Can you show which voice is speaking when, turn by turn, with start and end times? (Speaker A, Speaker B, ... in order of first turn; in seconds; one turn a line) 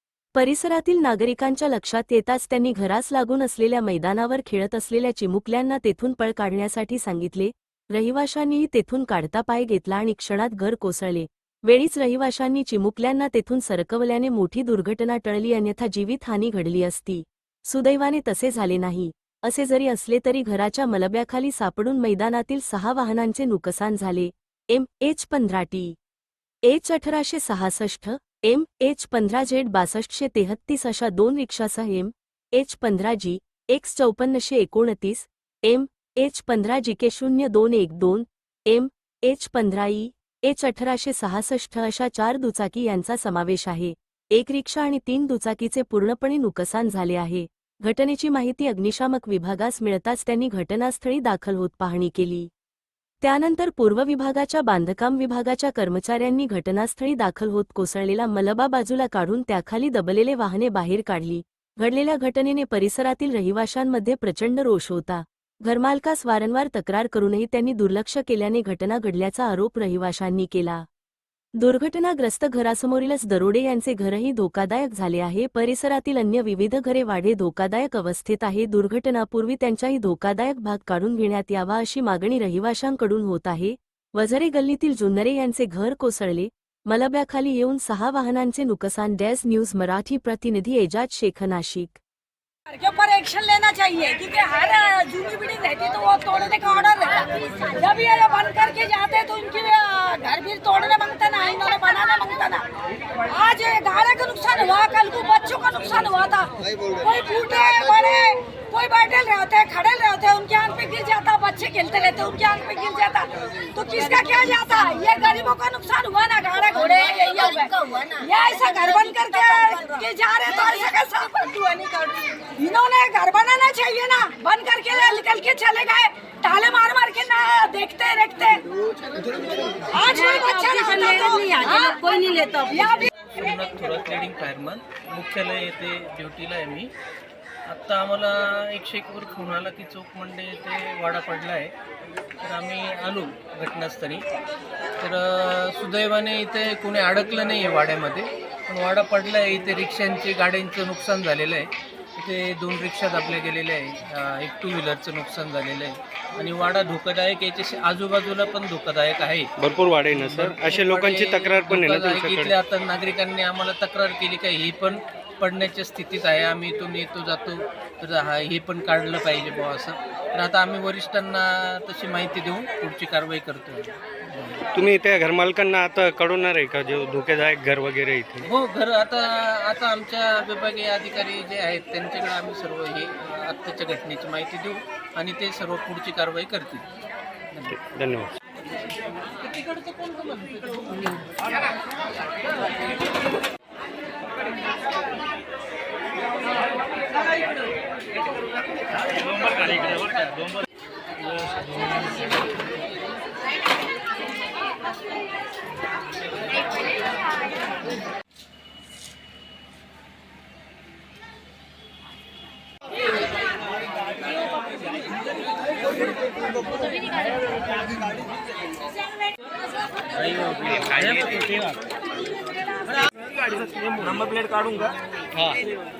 Speaker A: 0.3-25.9
Speaker A: 26.7-52.5
Speaker A: 53.2-70.8
Speaker A: 71.6-92.0
Speaker B: 92.7-102.7
Speaker B: 103.2-128.7
Speaker C: 117.0-118.3
Speaker B: 129.9-132.1
Speaker C: 129.9-133.1
Speaker B: 132.7-133.1
Speaker D: 133.3-136.9
Speaker D: 137.7-141.7
Speaker D: 142.4-144.3
Speaker D: 145.0-159.5
Speaker E: 159.6-162.5
Speaker D: 160.1-174.6
Speaker E: 174.8-178.5
Speaker D: 178.5-186.9
Speaker E: 187.7-188.3
Speaker D: 220.3-221.5